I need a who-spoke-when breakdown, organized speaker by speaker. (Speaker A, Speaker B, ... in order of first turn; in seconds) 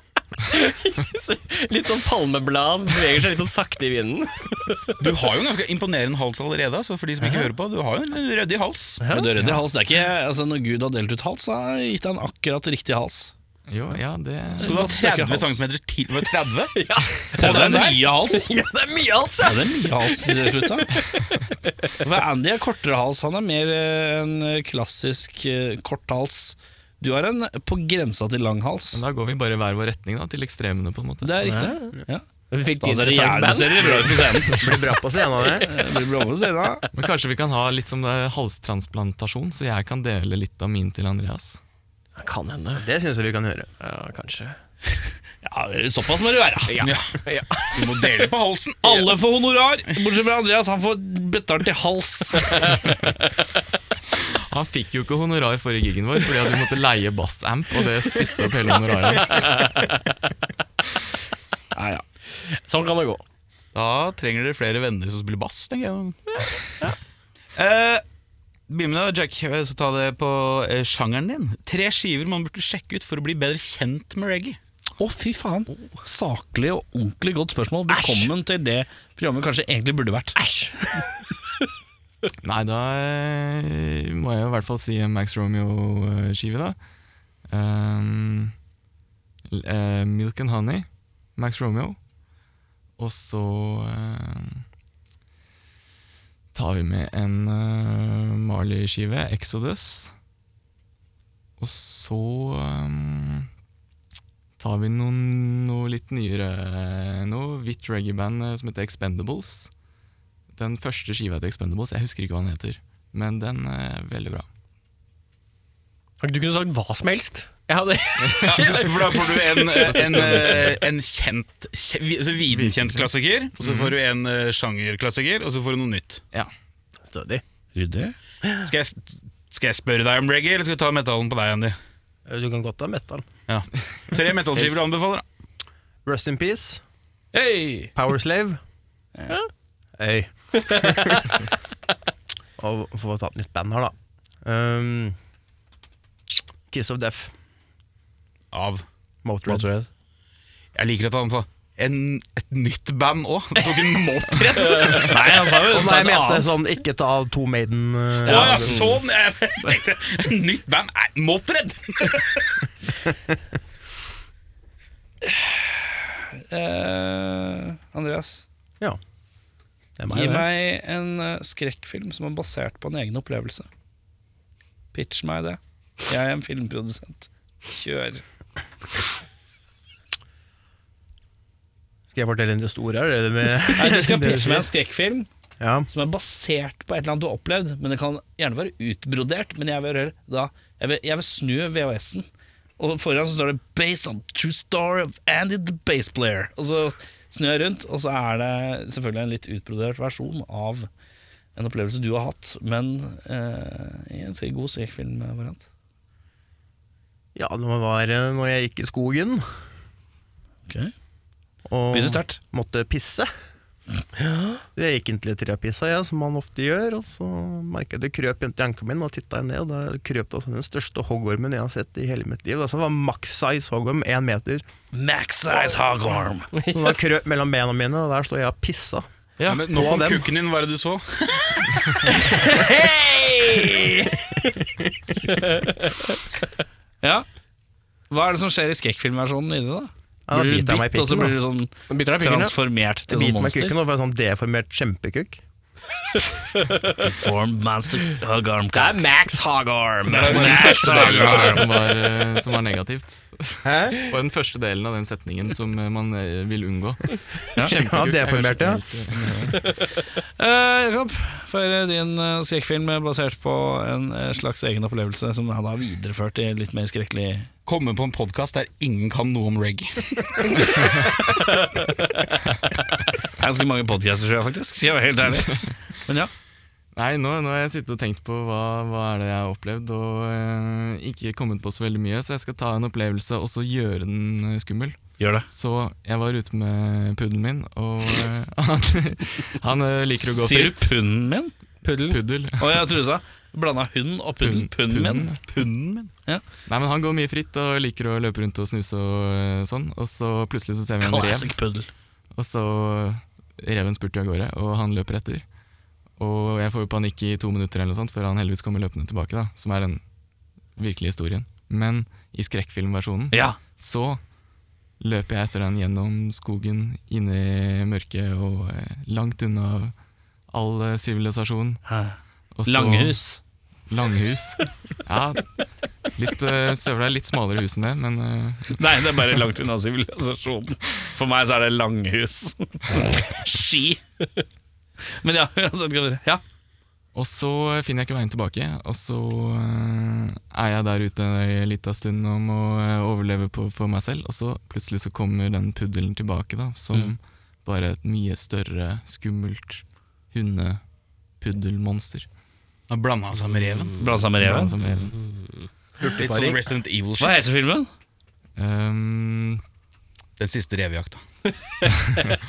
Speaker A: 0.5-4.9, 7.2-7.5, 9.0-9.3, 16.7-21.2, 31.4-31.9, 32.5-34.4, 42.2-42.8, 43.8-44.6, 46.7-47.8, 52.4-52.8, 59.2-60.1, 62.4-63.2, 66.4-66.9, 77.9-78.3, 80.3-81.2, 116.2-120.4, 127.0-127.4, 153.6-155.2, 214.2-214.6, 232.1-234.2, 235.2-236.2, 241.9-242.5, 246.6-246.9, 248.7-250.4, 291.8-292.2, 361.8-362.3
Speaker B: 5.0-9.1, 14.6-16.8, 17.3-17.9, 46.8-47.2, 47.7-49.1, 63.7-66.2, 67.5-68.0, 68.7-74.6, 118.4-126.2, 128.6-131.8, 133.5-135.2, 148.5-148.8, 150.7-155.2, 158.2-162.3, 229.4-231.8, 250.1-251.7, 267.6-270.6, 295.5-296.1, 352.9-354.2, 356.0-357.4, 360.4-361.2
Speaker C: 9.1-13.3, 14.6-15.6, 17.4-18.5, 19.4-20.9, 22.0-29.0, 31.2-32.2, 32.8-34.8, 35.5-36.9, 45.4-46.7, 48.8-52.8, 61.7-62.0, 75.0-80.3, 127.7-128.1, 137.3-137.9, 149.4-149.9, 155.0-156.6, 158.2-158.9, 165.2-168.4, 170.1-173.7, 174.9-178.2, 183.7-185.3, 185.9-192.2, 192.8-200.9, 201.6-205.6, 210.7-210.9, 211.9-212.4, 224.9-226.5, 229.4-229.6, 238.1-243.7, 246.9-249.1, 250.1-251.8, 259.2-259.5, 260.4-267.5, 273.4-276.3, 285.2-285.5, 290.2-291.5, 292.6-295.3, 301.0-301.9, 313.3-313.6, 321.9-323.4, 328.7-334.0, 335.2-336.4, 354.0-354.7, 357.2-357.9
Speaker D: 13.7-14.8, 28.9-31.4, 36.9-41.6, 54.3-59.7, 82.4-86.8, 87.5-88.5, 89.5-92.0, 93.0-94.6, 96.5-100.1, 101.6-103.5, 104.6-109.7, 110.5-114.5, 118.3-118.5, 119.8-120.8, 122.5-123.9, 250.2-259.7, 275.4-275.7, 276.9-285.0, 285.5-290.9, 292.1-292.9, 294.4-295.4, 296.7-301.5, 302.3-305.4, 306.2-310.0, 310.8-314.2, 315.0-319.9, 320.5-321.8, 322.5-323.2, 323.9-325.5, 326.1-328.8, 337.1-350.8, 351.4-352.3, 354.4-355.2, 358.6-359.6
Speaker E: 34.5-35.7, 42.8-43.7, 132.3-133.2, 136.1-136.8, 137.9-138.6, 140.0-141.2, 142.6-143.9, 144.4-145.2, 146.7-147.3, 149.2-149.7, 155.7-158.8, 170.0-170.4, 182.1-184.7, 185.6-185.9, 207.3-209.4, 211.7-213.3, 214.8-224.6, 226.7-229.0, 229.7-230.3, 240.3-241.3, 243.1-245.4, 253.6-254.0, 257.6-258.8, 356.0-356.6